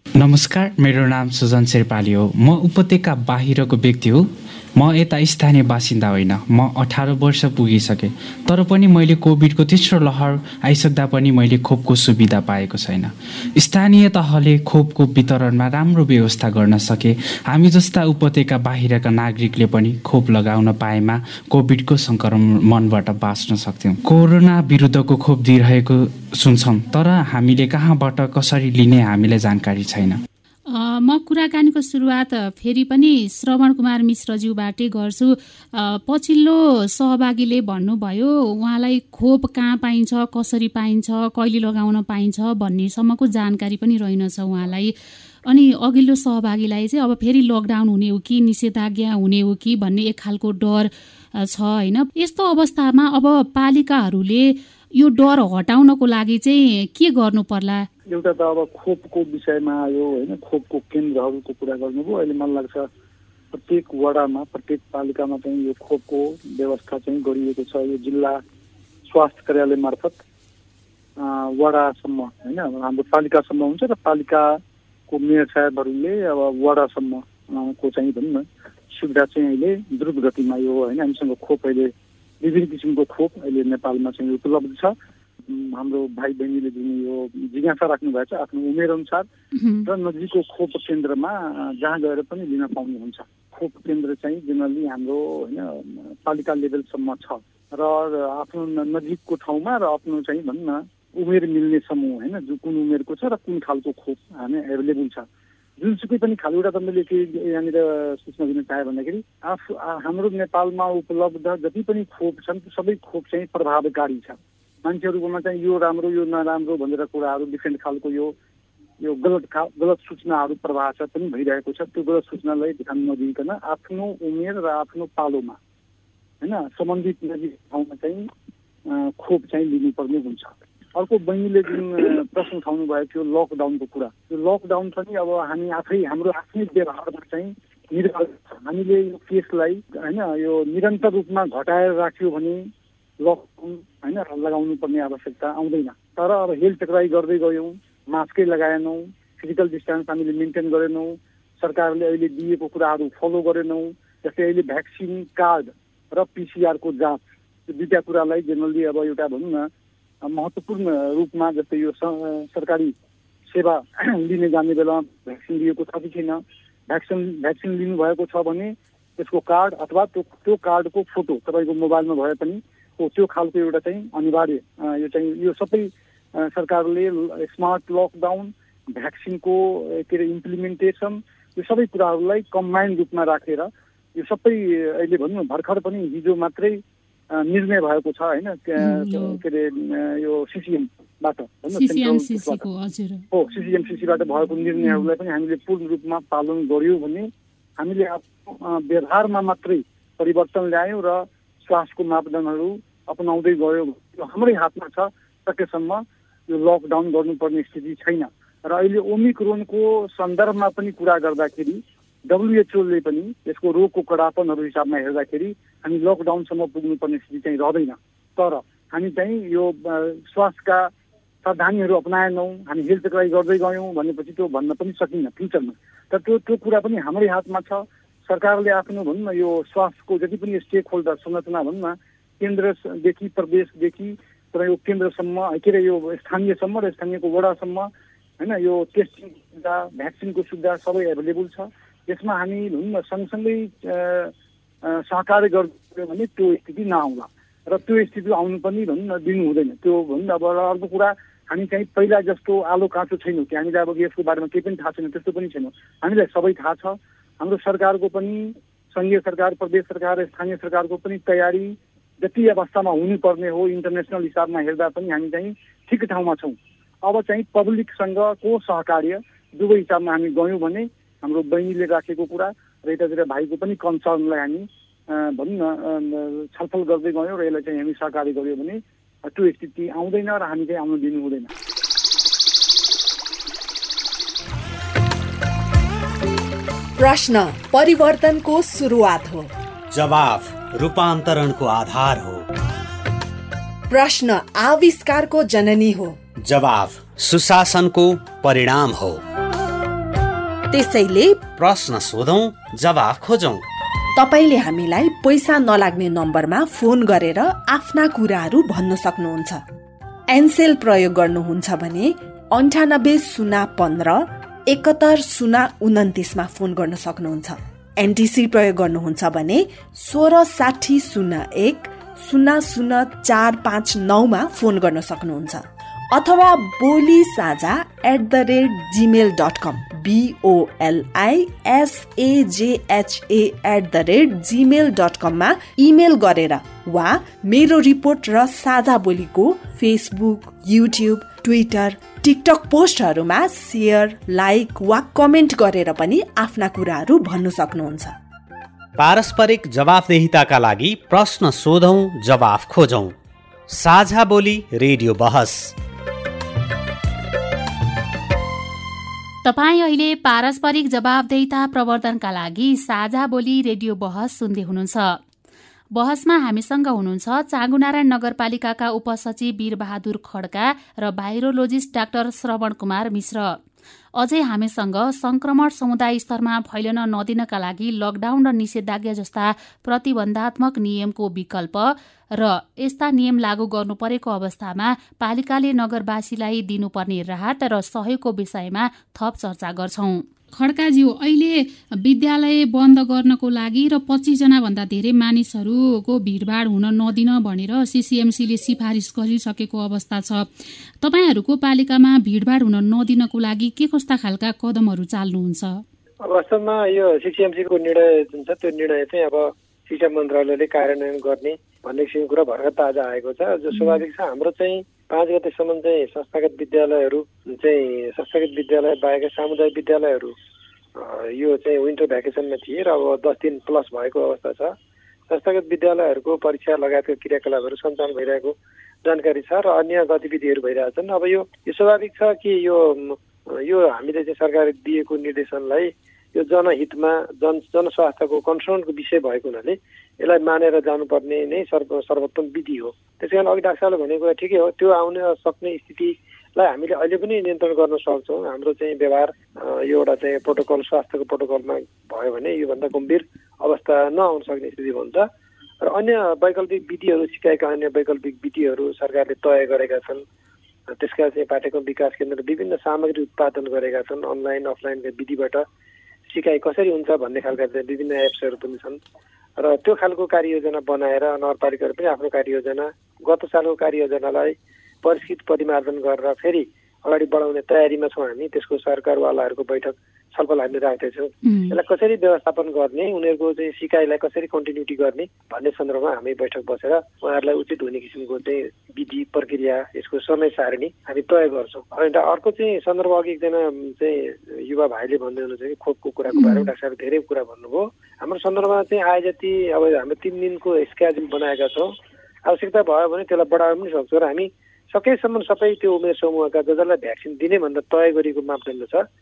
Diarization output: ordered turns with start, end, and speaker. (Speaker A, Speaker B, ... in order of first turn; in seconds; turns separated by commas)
Speaker A: 0.2-30.2, Speaker B: 30.7-44.9, Speaker B: 45.5-57.9, Speaker C: 58.1-62.9, Speaker C: 63.5-68.4, Speaker C: 69.1-70.2, Speaker C: 71.2-84.9, Speaker C: 85.5-89.3, Speaker B: 89.6-89.9, Speaker C: 89.9-105.3, Speaker C: 105.8-118.3, Speaker C: 119.0-125.6, Speaker C: 126.4-128.3, Speaker C: 128.9-142.7, Speaker C: 143.2-159.7, Speaker C: 160.2-162.9, Speaker C: 163.5-186.8, Speaker C: 187.3-192.7, Speaker B: 188.8-189.4, Speaker B: 191.7-193.2, Speaker C: 193.3-220.9, Speaker B: 194.8-195.1, Speaker C: 221.4-244.3, Speaker C: 244.8-281.5, Speaker D: 287.0-289.5, Speaker E: 289.9-292.4, Speaker D: 293.9-296.2, Speaker E: 296.4-299.2, Speaker D: 300.7-301.5, Speaker E: 301.5-303.6, Speaker D: 304.2-309.6, Speaker D: 310.3-348.2, Speaker E: 349.0-353.1, Speaker E: 353.7-355.7, Speaker B: 359.4-365.2, Speaker B: 365.9-373.6, Speaker B: 374.2-400.5, Speaker B: 401.0-405.8, Speaker F: 406.2-420.3, Speaker B: 413.7-414.0, Speaker F: 421.0-424.8, Speaker F: 425.3-455.3, Speaker F: 455.8-460.2, Speaker F: 460.9-465.6, Speaker F: 466.3-469.0, Speaker F: 469.6-501.9, Speaker B: 481.4-481.8, Speaker B: 496.4-496.7, Speaker F: 502.5-509.1